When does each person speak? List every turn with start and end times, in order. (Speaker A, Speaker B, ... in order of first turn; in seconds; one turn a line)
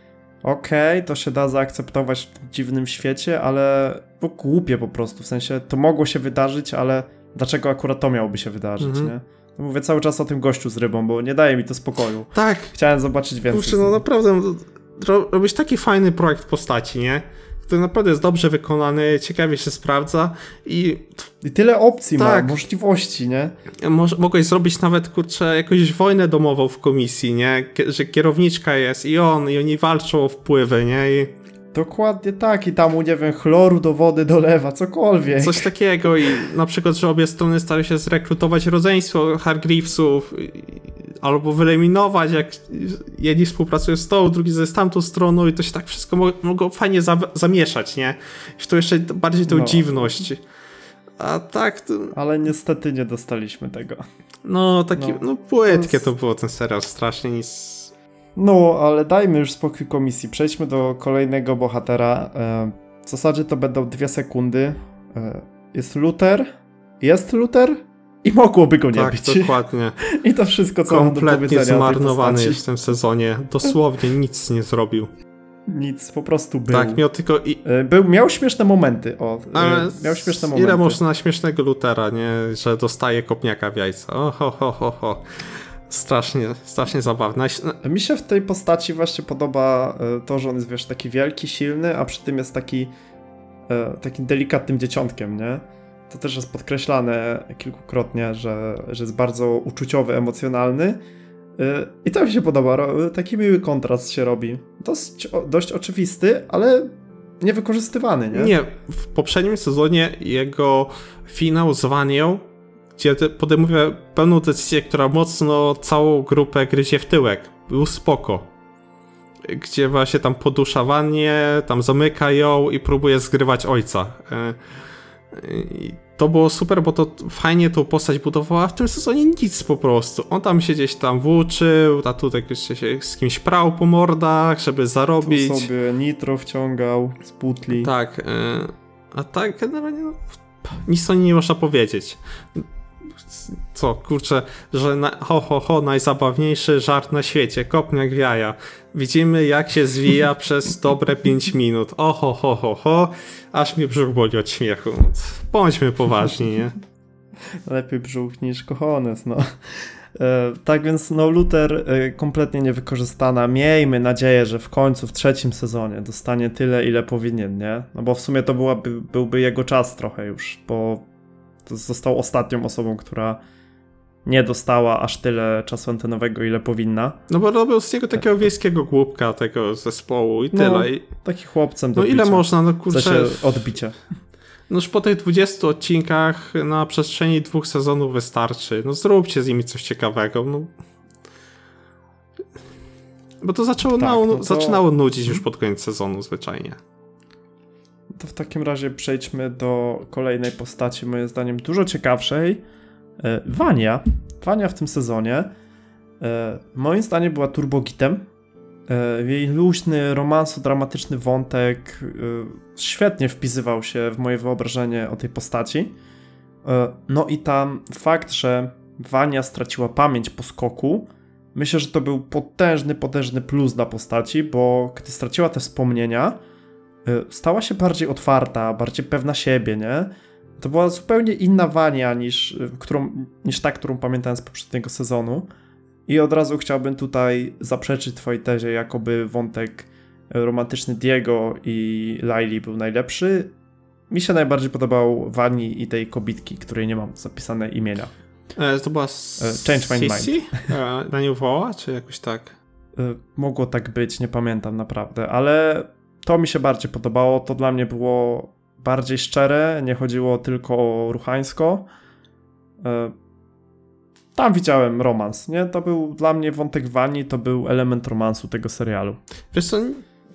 Speaker A: 0.4-14.0
Speaker B: 8.8-9.1
Speaker B: 12.3-12.7
Speaker B: 13.5-21.3
Speaker A: 21.4-23.6
Speaker B: 22.2-22.6
Speaker B: 23.8-31.3
Speaker A: 31.7-35.7
Speaker B: 35.4-50.4
Speaker A: 49.5-50.3
Speaker B: 51.2-52.1
Speaker A: 52.1-54.0
Speaker B: 54.5-57.9
Speaker A: 55.0-56.1
Speaker A: 58.4-66.5
Speaker A: 67.0-72.6
Speaker B: 68.9-70.0
Speaker B: 70.9-75.1
Speaker A: 75.7-77.0
Speaker B: 76.7-77.6
Speaker A: 77.6-81.0
Speaker B: 79.5-85.3
Speaker B: 85.9-87.8
Speaker A: 87.8-92.9
Speaker A: 93.7-101.0
Speaker A: 101.6-108.5
Speaker B: 108.3-112.5
Speaker B: 113.0-118.5
Speaker B: 119.5-124.6
Speaker B: 125.3-135.7
Speaker A: 135.2-137.9
Speaker B: 137.8-142.6
Speaker B: 143.2-156.8
Speaker A: 157.7-171.1
Speaker A: 171.7-173.4
Speaker A: 174.2-177.2
Speaker B: 177.3-181.1
Speaker A: 180.5-184.0
Speaker B: 182.0-183.6
Speaker B: 184.7-190.7
Speaker B: 193.4-196.8
Speaker A: 194.0-195.4
Speaker A: 198.2-202.6
Speaker A: 203.2-205.5
Speaker A: 206.2-208.2
Speaker A: 208.9-215.9
Speaker A: 216.6-226.4
Speaker A: 227.1-235.5
Speaker A: 236.1-243.5
Speaker A: 244.1-248.1
Speaker B: 248.6-252.6
Speaker A: 249.4-250.6
Speaker A: 253.0-261.9
Speaker A: 262.8-263.1
Speaker A: 264.4-269.2
Speaker B: 269.5-270.0